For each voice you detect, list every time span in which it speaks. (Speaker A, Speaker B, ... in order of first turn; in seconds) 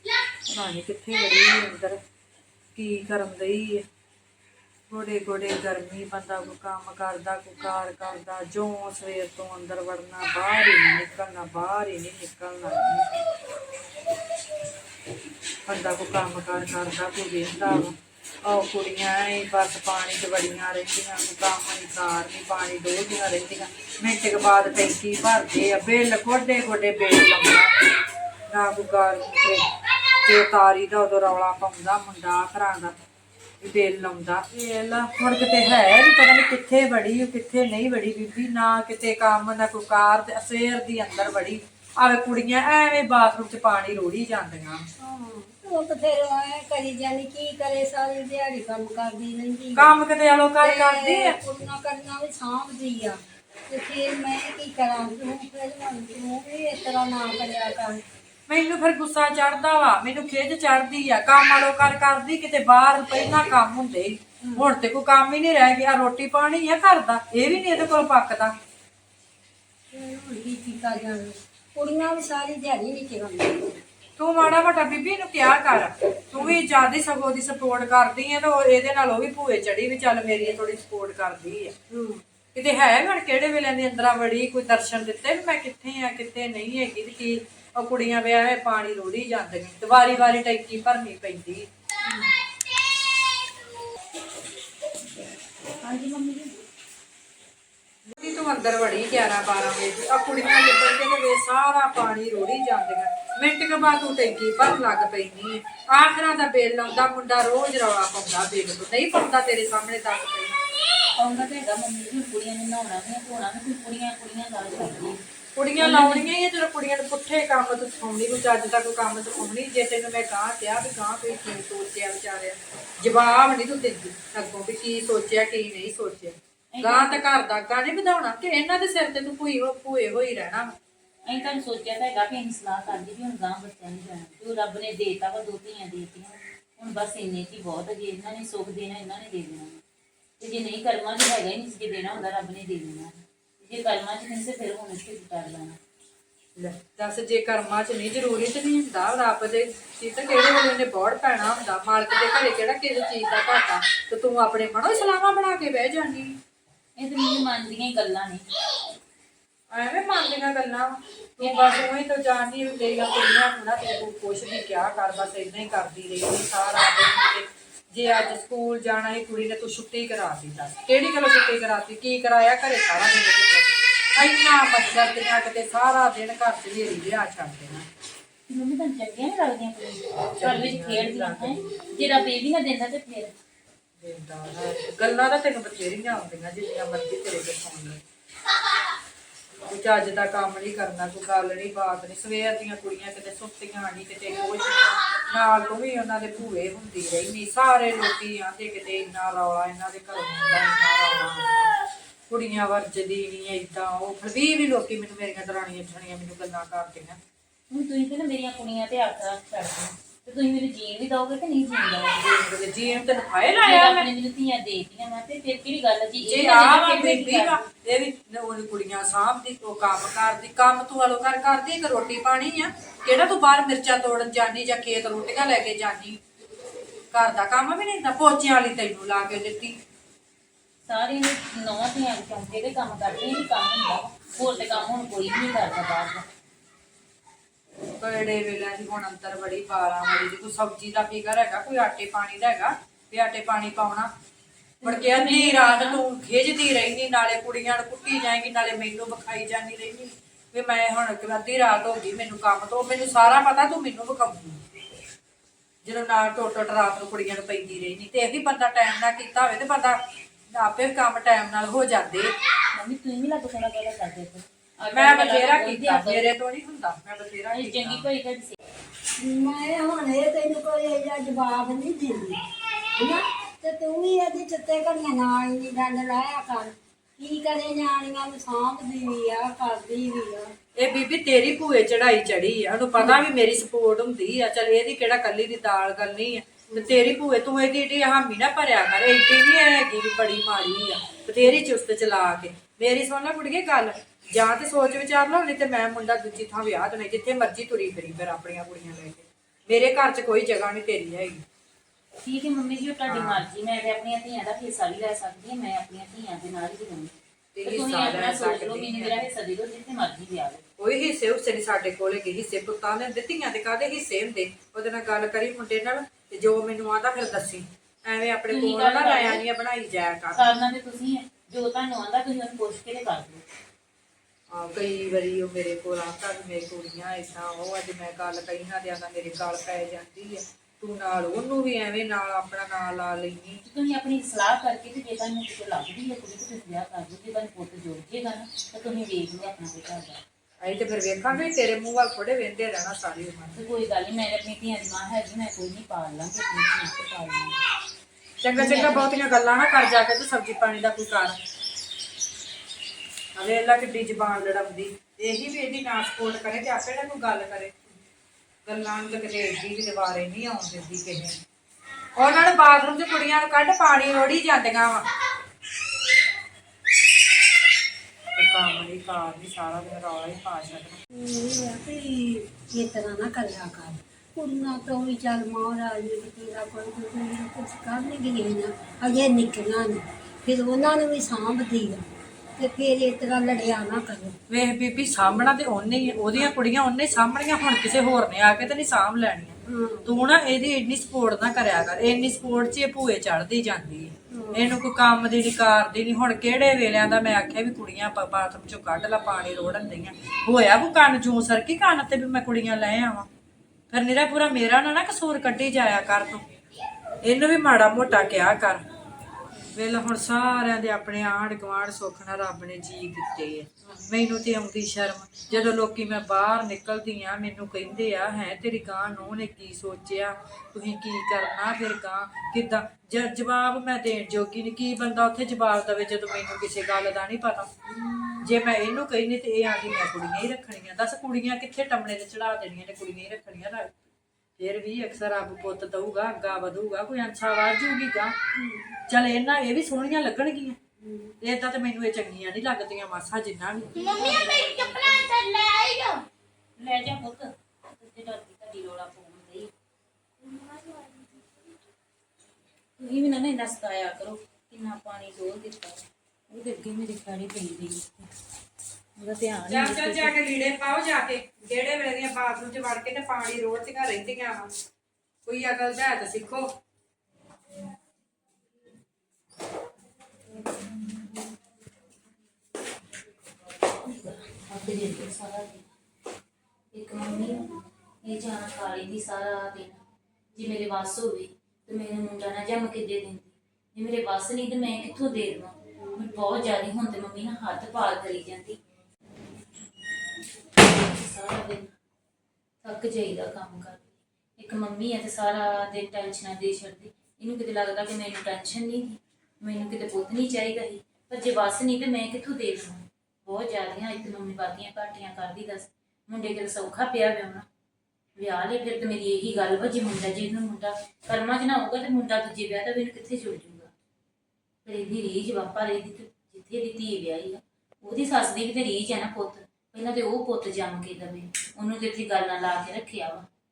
Speaker A: 0.5-2.0, 2.7-3.8, 4.9-13.1, 15.7-27.7, 28.5-29.7, 30.2-33.0, 33.6-44.9, 49.8-51.4, 58.5-68.5, 74.2-81.7, 82.5-91.7, 98.1-110.6, 115.6-130.7, 146.6-156.4, 159.7-177.9, 180.4-181.6, 184.0-188.0, 189.7-201.7, 202.3-207.2, 212.2-214.1, 216.3-226.2, 227.1-229.8, 234.5-234.9, 238.0-244.1, 244.8-254.6, 255.8-262.3, 264.9-268.1, 280.8-301.4, 303.1-303.4, 307.6-309.3, 310.8-320.5, 324.5-333.6, 340.6-343.6, 348.4-351.4, 353.4-358.0, 358.7-361.4, 362.2-365.1, 368.4-371.0, 384.5-403.3, 403.9-406.4, 407.2-408.9, 409.7-427.7, 428.4-434.0, 434.6-438.4, 439.1-440.8, 441.4-444.1, 459.7-464.7, 465.5-466.7
Speaker B: 45.0-50.0, 50.6-58.0, 69.9-73.8, 81.9-82.2, 92.0-92.3, 269.2-272.4, 273.0-280.5, 286.7-287.0, 371.1-382.0, 382.6-384.4, 389.7-390.1, 394.3-394.7, 427.9-428.5, 438.6-439.0, 441.0-441.4
Speaker C: 95.8-96.6, 111.2-115.2, 115.8-116.3, 126.7-127.2, 131.3-139.8, 140.4-145.8, 157.0-158.5, 178.5-183.3, 207.7-212.3, 213.6-217.7, 230.9-236.2, 244.8-246.0, 262.8-266.3, 267.5-268.6, 302.2-310.7, 318.5-319.4, 320.3-323.4, 333.6-340.2, 343.6-347.6, 348.6-349.1, 443.9-446.2, 446.8-449.7, 453.0-458.3, 459.2-460.4, 470.7-471.4, 473.9-475.9, 476.9-480.0, 480.6-488.8, 490.6-492.0, 492.8-507.7, 508.4-513.9, 514.9-523.5